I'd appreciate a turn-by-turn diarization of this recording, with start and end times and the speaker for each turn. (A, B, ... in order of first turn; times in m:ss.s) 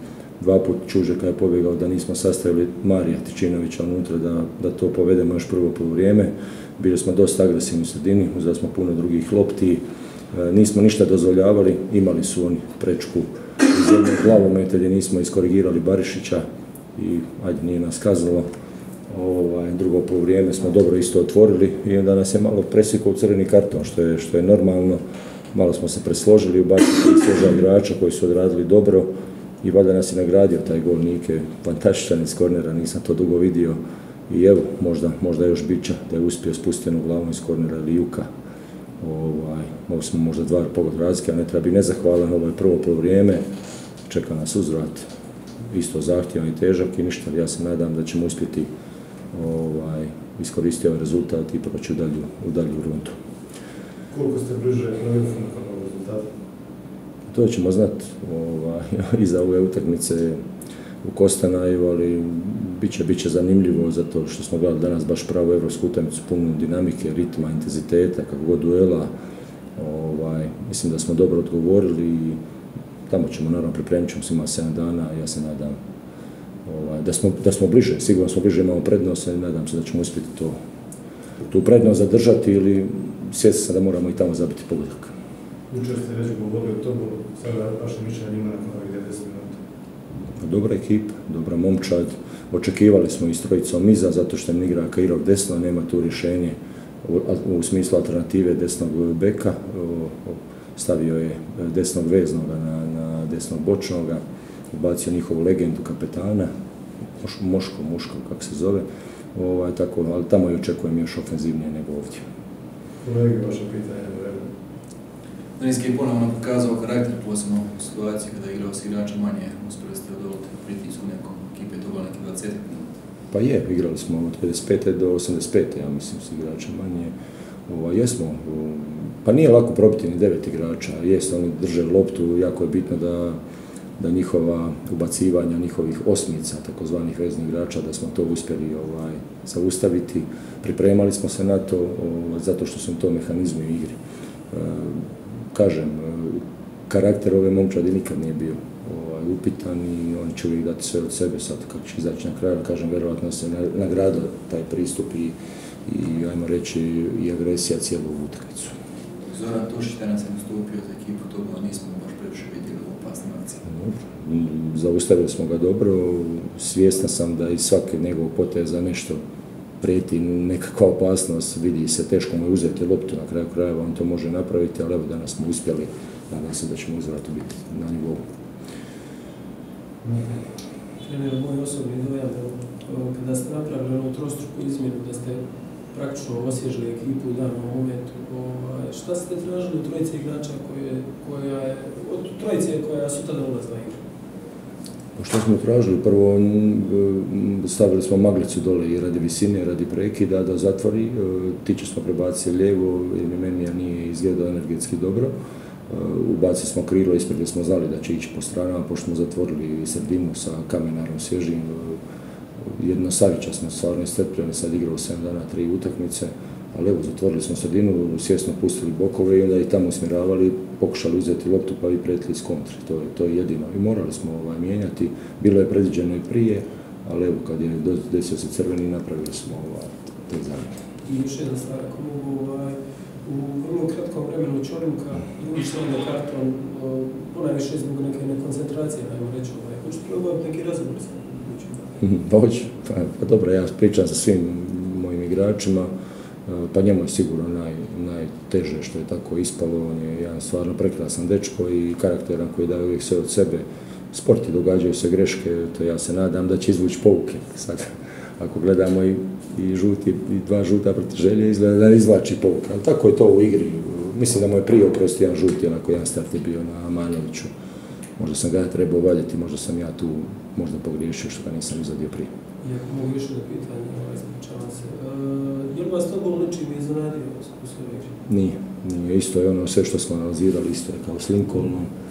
0:00.4-0:09.8 A
0:10.3-0:16.4 A
0:17.0-0:18.5 A
0:19.1-0:25.0 A
0:25.5-0:29.1 A
0:29.6-0:38.3 A
0:39.0-0:43.4 A
0:44.1-0:45.1 A
0:45.7-0:48.7 A
0:49.3-0:53.1 A
0:54.1-0:56.2 B
0:57.3-1:00.4 A
1:01.0-1:09.1 A
1:09.8-1:12.4 A
1:13.1-1:15.8 A
1:16.6-1:20.6 A
1:21.5-1:25.1 A
1:25.7-1:29.6 B
1:30.4-1:46.5 A
1:47.2-1:52.2 A
1:53.0-1:54.5 B
1:55.6-2:02.8 C
2:03.3-2:07.1 A
2:07.7-2:13.4 A
2:14.0-2:24.0 A
2:24.5-2:35.4 A
2:35.9-2:38.7 A
2:39.3-2:43.6 C
2:43.7-2:49.2 A
2:49.8-2:58.2 A
3:00.0-3:00.3 B
3:01.0-3:14.0 D
3:15.2-3:25.3 A
3:25.9-3:32.0 A
3:32.6-3:50.8 A
3:51.0-4:01.9 D
4:02.0-4:05.9 A
4:06.5-4:27.5 A
4:28.2-4:32.3 A
4:32.6-4:38.2 D
4:38.3-4:41.9 A